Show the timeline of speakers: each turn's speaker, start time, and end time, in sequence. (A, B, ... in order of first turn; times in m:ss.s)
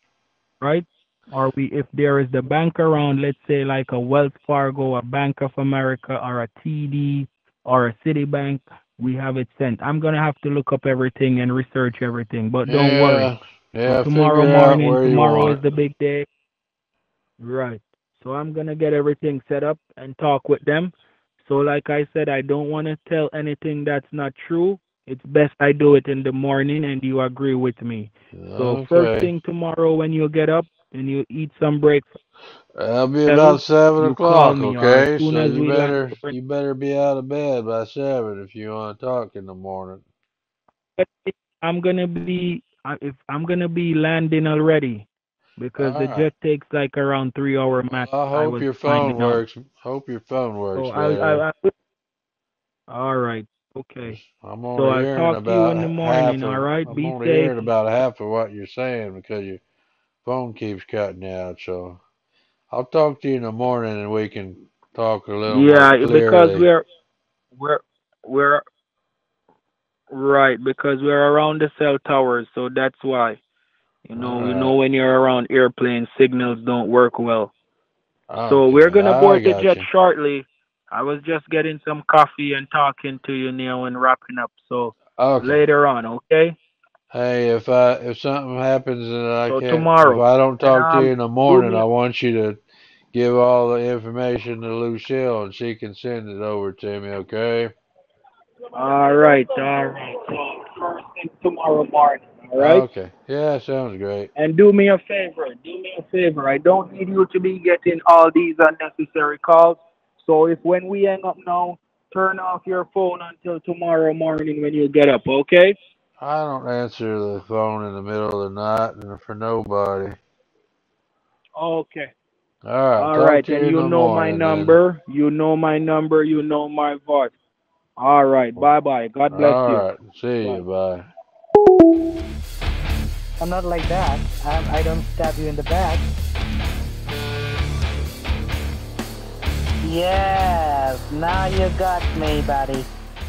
0:00.6-0:13.3 A
0:12.6-0:15.6 B
0:13.8-0:16.3 A
0:17.4-0:32.2 A
0:28.3-0:29.3 B
0:32.7-0:40.0 B
0:33.3-0:36.3 A
0:41.0-0:45.1 A
0:45.6-0:49.4 A
0:45.8-0:46.3 B
0:47.9-0:51.4 B
0:50.7-0:51.7 A
0:52.9-0:54.2 A
0:54.0-0:59.6 B
0:54.8-0:57.7 A
1:00.2-1:02.0 B
1:02.7-1:06.6 B
1:05.5-1:06.8 A
1:07.5-1:08.6 A
1:10.1-1:13.4 A
1:14.0-1:17.5 A
1:14.2-1:14.8 B
1:18.3-1:19.9 B
1:18.5-1:26.6 A
1:25.2-1:25.6 B
1:27.1-1:32.6 B
1:29.5-1:31.8 A
1:33.1-1:37.7 B
1:38.8-1:42.8 A
1:42.6-1:44.3 B
1:44.4-1:55.8 A
1:56.2-2:00.2 B
2:01.6-2:02.1 A
2:02.6-2:04.8 B
2:03.0-2:07.4 A
2:08.0-2:09.9 A
2:09.3-2:11.1 B
2:13.4-2:16.1 C
2:19.8-2:22.9 C